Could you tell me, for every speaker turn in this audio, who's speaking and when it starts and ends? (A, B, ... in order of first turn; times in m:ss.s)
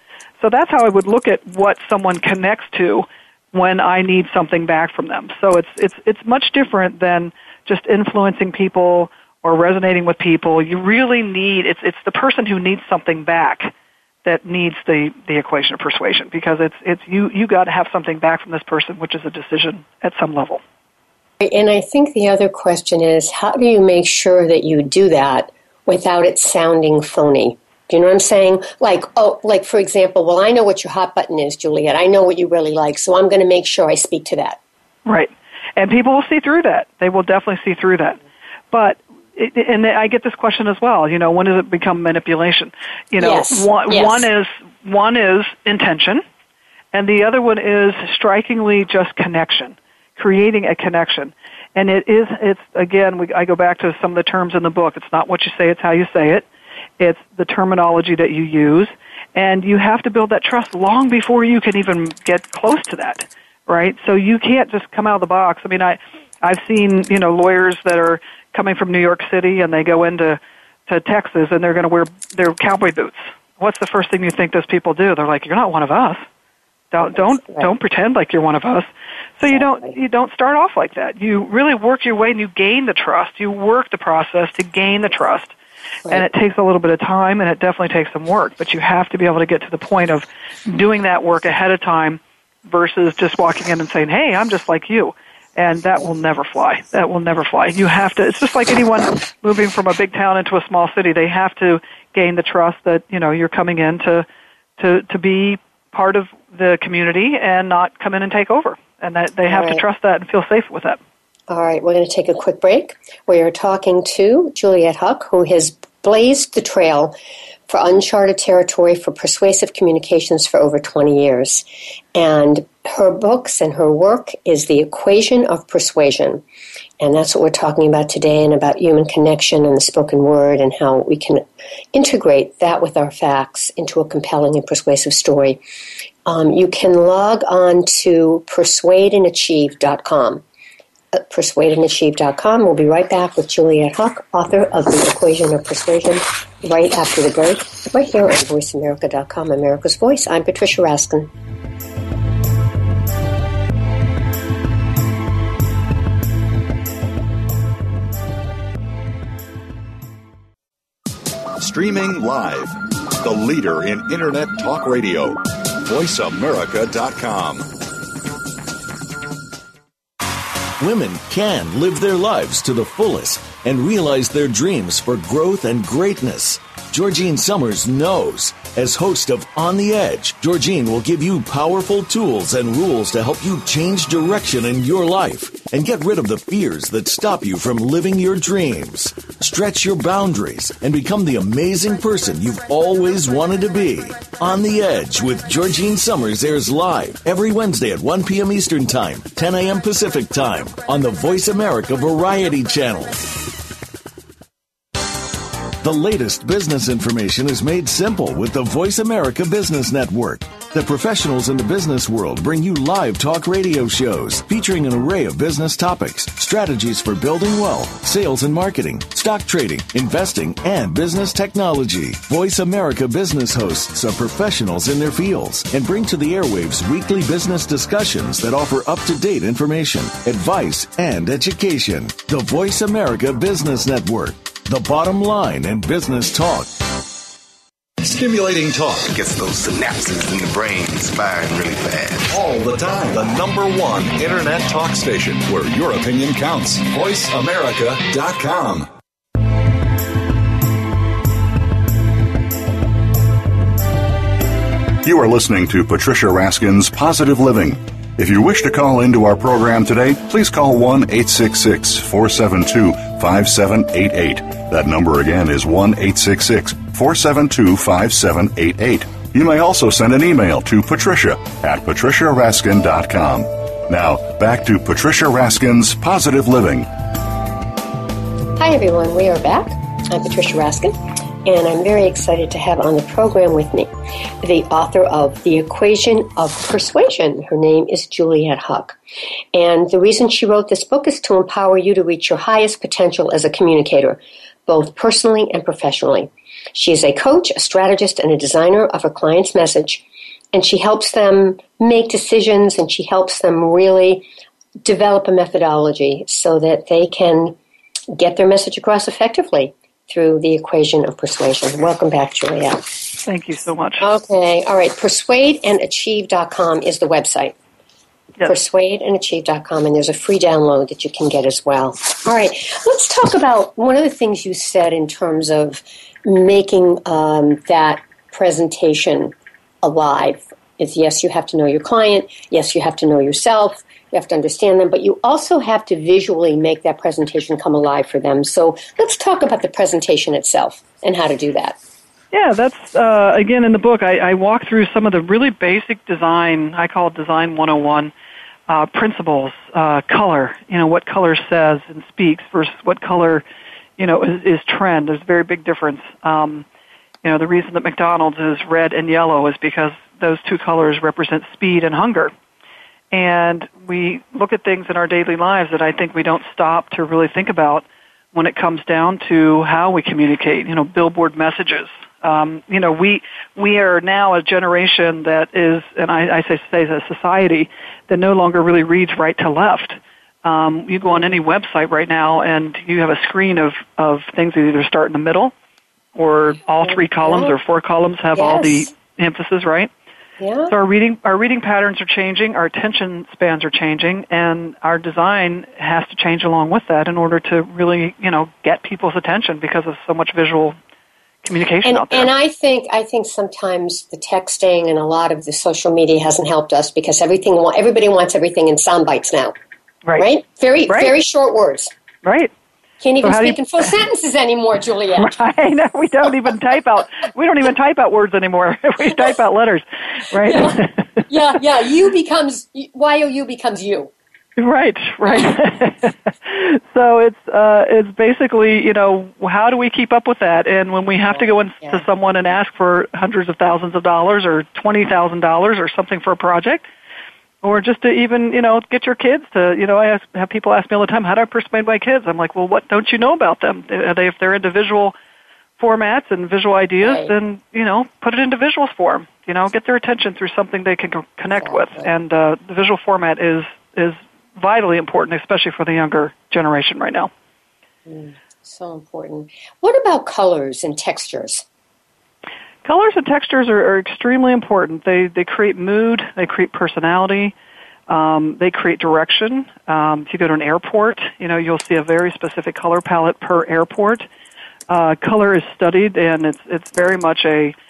0:00.4-0:13.7 A
0:14.2-0:20.6 A
0:21.4-0:34.6 B
0:35.0-0:38.2 A
0:38.7-0:46.2 A
0:43.2-0:44.3 B
0:46.9-0:56.4 A
0:57.0-1:16.2 A
1:16.9-1:25.5 A
1:17.0-1:17.7 B
1:19.5-1:19.9 B
1:26.1-1:44.2 A
1:44.8-1:51.0 A
1:49.4-1:49.8 B
1:51.5-1:57.1 B
1:57.7-2:06.4 B
2:07.0-2:15.6 B
2:16.2-2:20.4 B
2:21.1-2:31.3 B
2:41.6-2:47.7 C
2:50.8-3:23.3 D
3:25.8-3:56.8 D
3:58.0-3:59.1 C
3:59.1-4:02.3 E
4:02.3-4:08.9 C
4:15.0-4:36.9 C
4:38.6-4:49.0 B
4:49.5-5:04.2 B
5:04.8-5:07.6 B
5:08.1-5:12.8 B
5:13.2-5:14.1 A
5:14.0-5:17.5 B
5:18.4-5:41.8 B
5:42.3-5:48.1 A
5:48.7-5:53.4 A
5:54.0-5:56.6 A
5:57.2-6:02.3 A
6:03.1-6:25.5 A
6:21.0-6:21.4 B
6:26.2-6:29.9 A
6:26.8-6:27.5 B
6:28.3-6:28.9 B
6:30.4-6:30.7 B
6:30.7-6:40.8 A
6:41.4-6:42.3 A
6:41.8-6:49.5 B
6:50.2-6:51.9 B
6:50.9-6:51.1 A
6:52.2-6:52.5 A
6:53.0-6:55.3 B
6:53.2-6:53.9 A
6:55.2-7:01.2 A
7:00.4-7:00.8 B
7:01.3-7:04.1 B
7:04.6-7:16.9 A
7:11.3-7:12.0 B
7:17.6-7:25.1 A
7:25.8-7:37.3 A
7:27.0-7:27.3 B
7:31.5-7:32.1 B
7:38.1-7:41.6 B
7:42.8-7:47.5 A
7:48.1-7:54.3 A
7:54.9-7:57.7 A